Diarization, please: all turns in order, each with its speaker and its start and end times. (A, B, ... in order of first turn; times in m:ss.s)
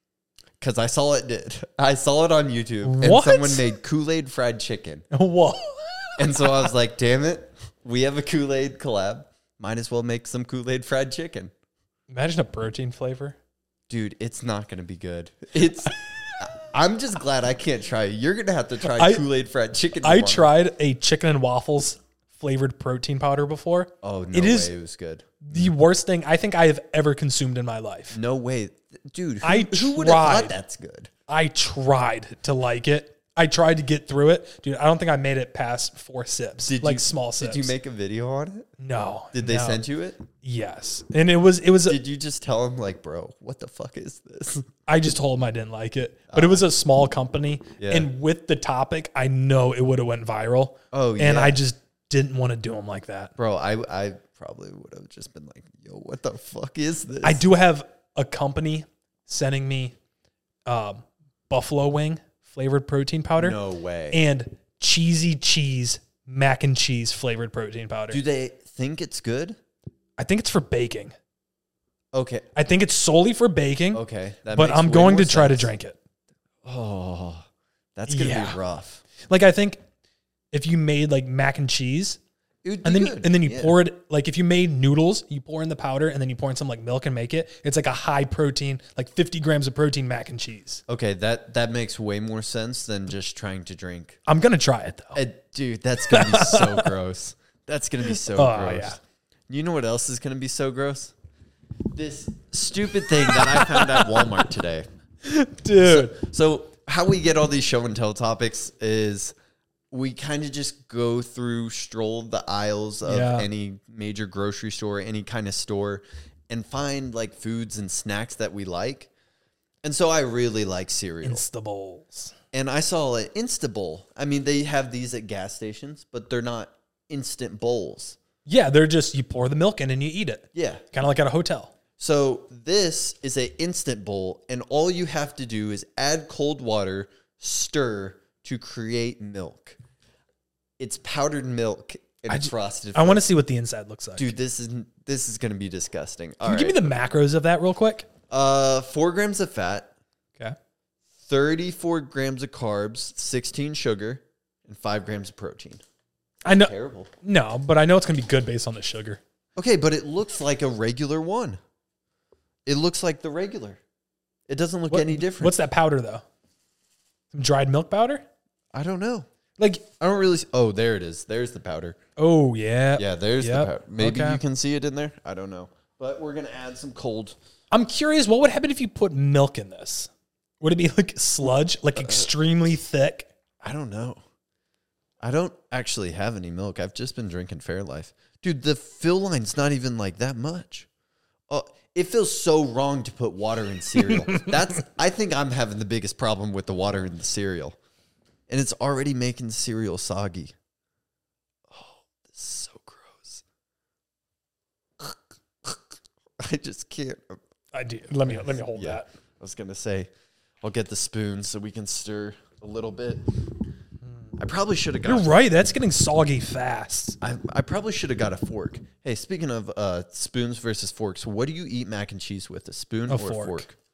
0:00.6-0:05.0 A
0:02.8-0:03.8 B
0:05.1-0:06.7 B
0:06.2-0:11.5 A
0:12.1-0:13.4 B
0:13.9-0:20.5 A
0:18.8-0:19.2 B
0:20.0-0:24.7 B
0:24.0-0:25.7 A
0:25.4-0:28.2 B
0:28.1-0:31.1 A
0:29.4-0:30.6 B
0:31.3-0:37.7 B
0:36.6-0:38.7 A
0:38.8-0:39.8 B
0:39.3-0:40.3 A
0:40.4-0:42.0 B
0:41.9-0:44.7 A
0:44.9-0:53.3 B
0:46.3-0:46.6 A
0:47.8-0:48.1 A
0:50.9-0:51.6 A
0:53.4-0:57.4 A
0:57.2-1:00.0 B
1:00.7-1:03.6 B
1:03.4-1:04.2 A
1:04.1-1:08.2 B
1:08.1-1:09.6 A
1:10.2-1:11.2 B
1:12.1-1:12.5 A
1:12.6-1:16.0 B
1:13.9-1:15.7 A
1:16.6-1:17.4 A
1:18.0-1:19.0 A
1:18.1-1:18.6 B
1:19.2-1:19.8 B
1:20.5-1:22.2 B
1:22.6-1:23.8 A
1:22.8-1:30.8 B
1:30.9-1:34.2 A
1:34.3-1:35.2 B
1:35.2-1:39.0 A
1:36.1-1:36.9 B
1:38.1-1:39.0 B
1:39.5-1:41.1 A
1:41.9-1:44.9 A
1:43.2-1:44.4 B
1:45.2-1:46.2 B
1:45.8-1:49.3 A
1:49.9-1:59.1 A
1:53.0-1:53.5 B
1:59.8-2:01.4 A
2:01.2-2:02.3 B
2:02.5-2:08.2 A
2:08.5-2:11.7 B
2:10.5-2:10.9 A
2:12.0-2:19.8 A
2:20.8-2:23.2 A
2:22.3-2:24.3 B
2:24.2-2:26.9 A
2:26.4-2:28.1 B
2:28.3-2:29.9 A
2:31.3-2:35.8 A
2:36.4-2:37.1 A
2:36.4-2:39.2 B
2:39.6-2:41.6 A
2:42.7-2:43.8 A
2:44.5-2:45.6 A
2:44.9-2:46.2 B
2:47.3-2:48.2 B
2:48.7-2:49.3 A
2:49.6-2:49.9 B
2:50.0-2:52.0 A
2:52.2-2:54.4 B
2:53.0-2:57.4 A
2:57.7-3:00.1 B
3:00.6-3:03.3 B
3:02.0-3:02.3 A
3:03.6-3:04.2 A
3:05.2-3:10.9 A
3:11.5-3:17.8 A
3:18.5-3:20.5 A
3:21.7-3:23.4 A
3:25.0-3:25.8 A
3:26.4-3:27.4 A
3:27.7-3:29.1 B
3:28.3-3:30.1 A
3:30.6-3:33.4 A
3:34.4-3:35.3 A
3:35.0-3:37.2 B
3:37.2-3:43.8 A
3:43.1-3:43.6 B